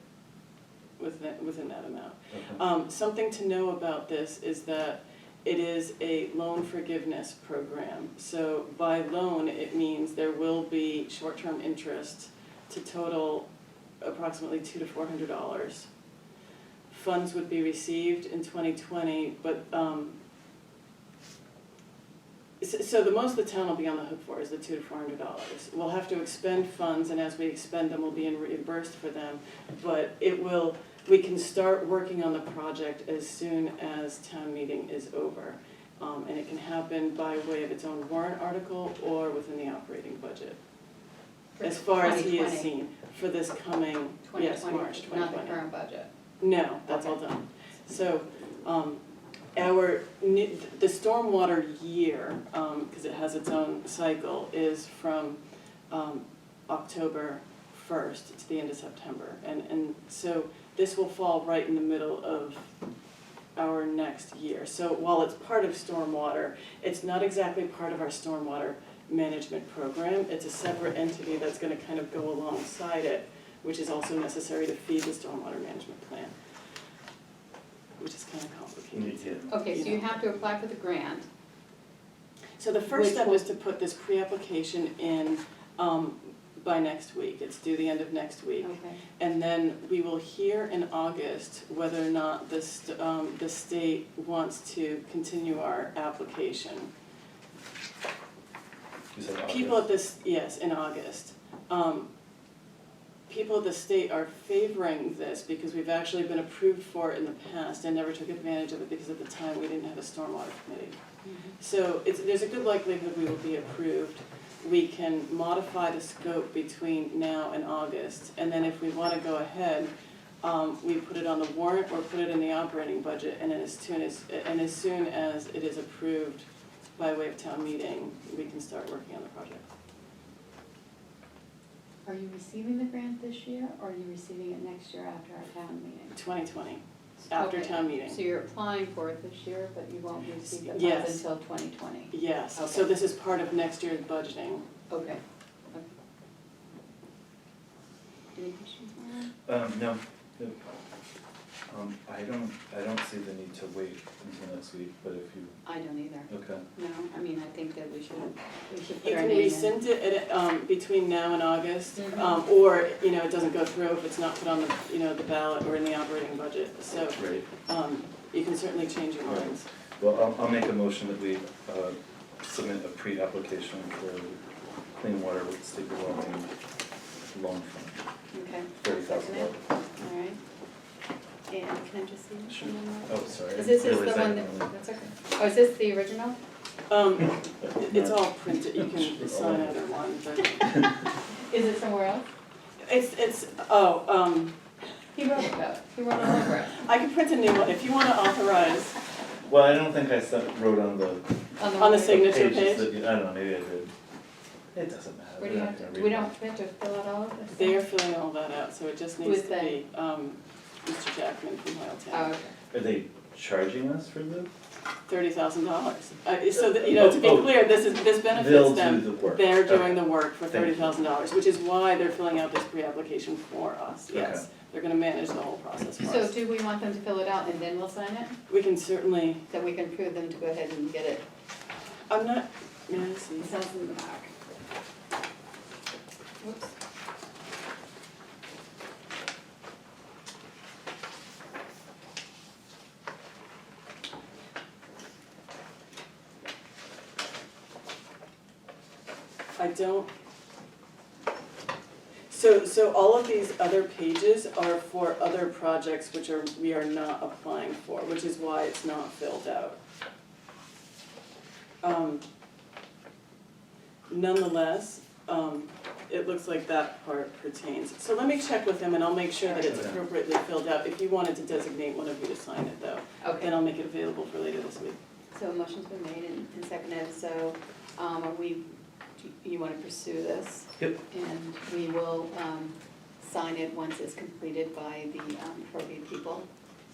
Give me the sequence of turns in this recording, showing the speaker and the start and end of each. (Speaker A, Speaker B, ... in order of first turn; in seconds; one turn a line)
Speaker A: 1.0-13.5
Speaker B: 2.3-2.6
Speaker A: 14.0-15.9
Speaker A: 16.9-20.1
Speaker A: 22.6-40.6
Speaker C: 41.5-42.7
Speaker A: 41.6-45.6
Speaker C: 44.2-46.1
Speaker A: 46.4-49.0
Speaker C: 46.9-47.2
Speaker A: 49.5-62.7
Speaker A: 63.5-76.3
Speaker A: 78.0-80.2
Speaker B: 78.9-79.5
Speaker C: 79.5-81.2
Speaker A: 82.6-96.9
Speaker C: 82.9-83.5
Speaker C: 88.6-89.0
Speaker B: 99.1-99.8
Speaker A: 99.4-102.1
Speaker A: 103.3-111.0
Speaker C: 111.2-111.5
Speaker A: 111.6-126.5
Speaker A: 127.0-129.7
Speaker C: 132.0-136.1
Speaker A: 136.1-138.2
Speaker C: 137.3-143.0
Speaker A: 140.5-141.2
Speaker A: 142.1-144.7
Speaker C: 144.9-145.2
Speaker C: 148.3-149.3
Speaker B: 149.5-150.6
Speaker B: 151.7-155.6
Speaker C: 155.6-159.8
Speaker B: 156.3-156.6
Speaker A: 159.0-169.7
Speaker C: 162.0-162.4
Speaker B: 167.2-167.4
Speaker B: 169.2-174.4
Speaker B: 175.0-176.5
Speaker B: 177.3-178.0
Speaker C: 178.3-180.4
Speaker B: 178.8-179.6
Speaker C: 181.5-186.4
Speaker B: 182.5-184.7
Speaker A: 186.9-190.8
Speaker B: 187.8-189.8
Speaker C: 191.0-192.2
Speaker A: 192.8-194.5
Speaker C: 195.1-196.8
Speaker A: 196.8-199.0
Speaker B: 199.5-203.9
Speaker C: 201.6-202.4
Speaker A: 201.7-202.9
Speaker B: 204.7-206.3
Speaker C: 205.4-207.9
Speaker A: 207.5-212.3
Speaker C: 209.2-209.8
Speaker C: 212.1-212.5
Speaker B: 212.7-214.5
Speaker A: 215.1-226.4
Speaker B: 216.8-217.7
Speaker B: 218.2-220.8
Speaker B: 224.1-224.4
Speaker C: 226.0-228.3
Speaker A: 228.5-229.4
Speaker C: 229.5-231.2
Speaker A: 232.1-233.5
Speaker C: 233.4-234.3
Speaker C: 236.4-236.7
Speaker A: 249.6-250.1
Speaker A: 252.3-259.8
Speaker A: 261.8-262.2
Speaker A: 264.1-275.0
Speaker C: 269.4-269.9
Speaker C: 273.2-273.5
Speaker C: 275.3-278.6
Speaker C: 279.2-286.4